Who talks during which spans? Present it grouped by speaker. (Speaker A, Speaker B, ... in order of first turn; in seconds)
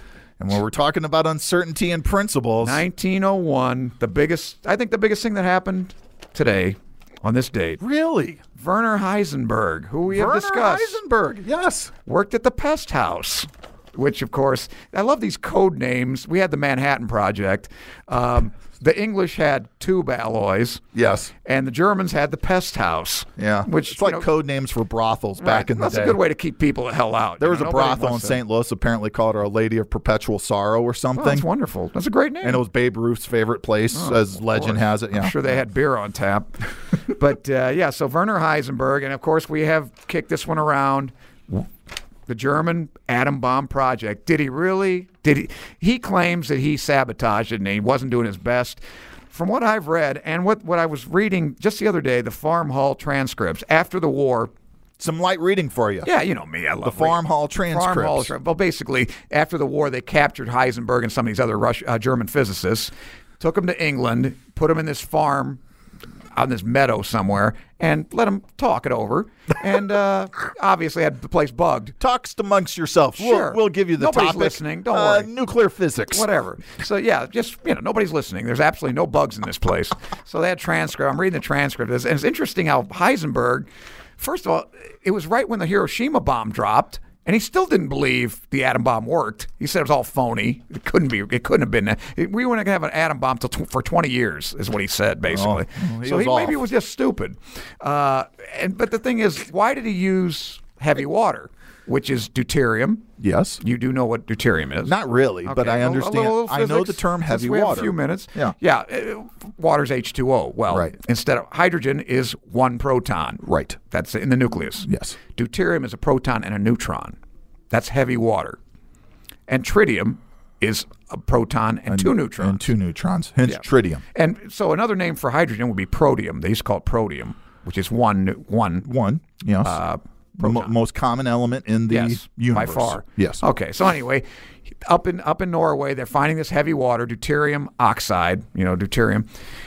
Speaker A: 0.4-2.8, 7.8-8.4, 10.1-11.9, 20.9-21.3, 23.4-26.2, 27.4-31.5, 32.4-35.5, 55.0-56.1, 56.8-58.3, 72.0-76.3, 95.3-96.6, 103.2-103.6, 104.8-108.5, 113.4-113.8, 114.8-115.2, 121.9-124.0, 128.8-129.8, 130.4-133.4
Speaker B: 2.6-7.8, 8.6-11.0, 12.1-20.8, 21.4-24.3, 25.4-28.4, 31.2-32.6, 33.9-41.7, 42.3-48.8, 49.3-54.5, 56.0-65.6, 66.3-72.0, 73.2-75.3, 76.1-103.1, 103.6-117.2, 117.7-118.6, 119.5-122.7, 124.1-128.9, 129.6-130.7, 131.9-134.2, 134.8-139.3